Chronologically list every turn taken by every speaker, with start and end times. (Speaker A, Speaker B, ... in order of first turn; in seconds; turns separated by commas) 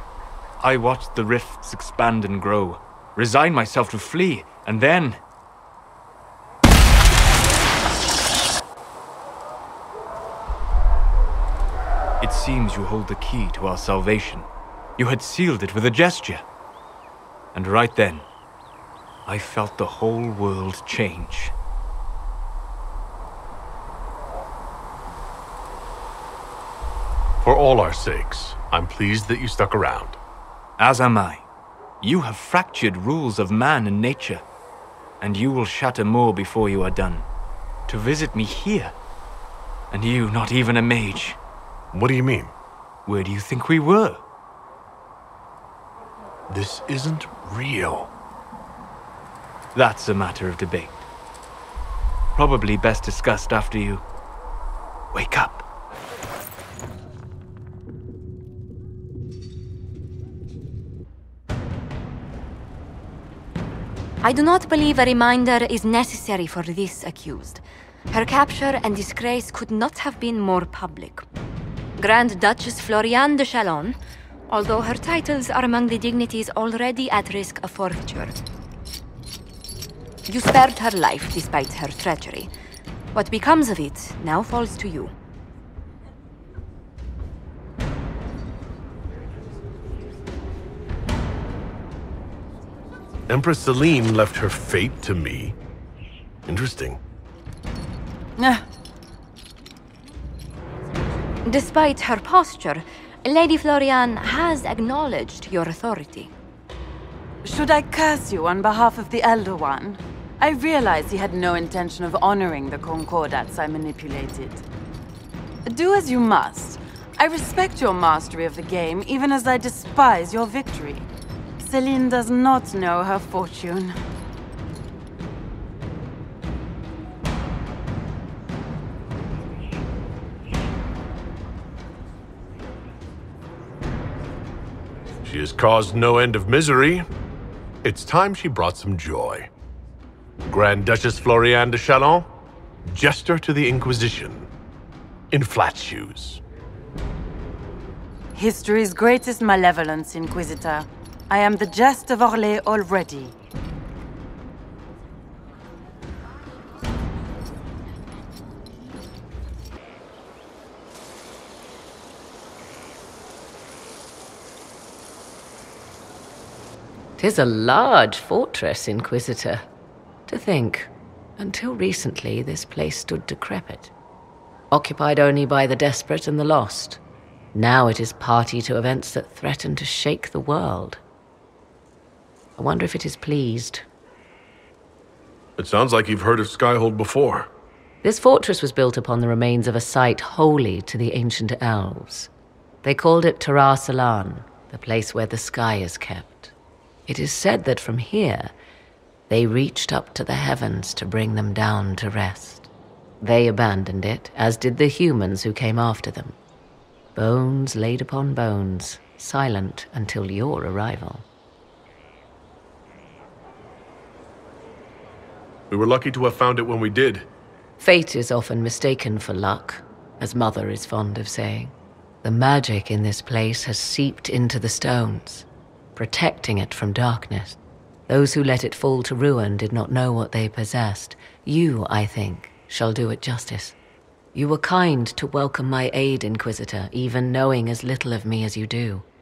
Speaker A: 0.6-5.2, Speaker A: 12.2-16.4, Speaker A: 17.5-18.2, Speaker A: 19.2-21.5, Speaker B: 27.4-30.2, Speaker A: 30.8-31.4, Speaker A: 32.0-34.4, Speaker A: 35.2-37.2, Speaker A: 37.9-38.9, Speaker A: 39.9-41.4, Speaker B: 41.9-42.5, Speaker A: 43.0-44.2, Speaker B: 46.5-48.1, Speaker A: 49.7-51.0, Speaker A: 52.4-54.0, Speaker A: 55.1-55.6, Speaker C: 64.2-71.2, Speaker C: 72.0-74.0, Speaker C: 74.5-78.4, Speaker C: 80.3-82.5, Speaker C: 83.1-85.1, Speaker B: 93.3-95.5, Speaker B: 96.5-97.0, Speaker D: 98.4-98.6, Speaker C: 101.4-106.3, Speaker D: 107.4-114.6, Speaker D: 115.6-121.1, Speaker D: 121.6-124.0, Speaker B: 135.2-137.0, Speaker B: 137.8-139.5, Speaker B: 140.5-142.3, Speaker B: 142.9-144.5, Speaker B: 145.3-146.4, Speaker D: 148.3-153.3, Speaker E: 167.2-169.6, Speaker E: 170.3-173.9, Speaker E: 174.7-177.0, Speaker E: 177.5-181.0, Speaker E: 182.6-183.8, Speaker B: 185.6-187.5, Speaker E: 188.0-192.3, Speaker E: 192.8-196.5, Speaker E: 197.1-198.5, Speaker E: 199.3-202.7, Speaker E: 203.2-206.3, Speaker E: 207.2-211.2, Speaker B: 215.7-217.3, Speaker E: 217.8-233.8, Speaker E: 234.3-239.0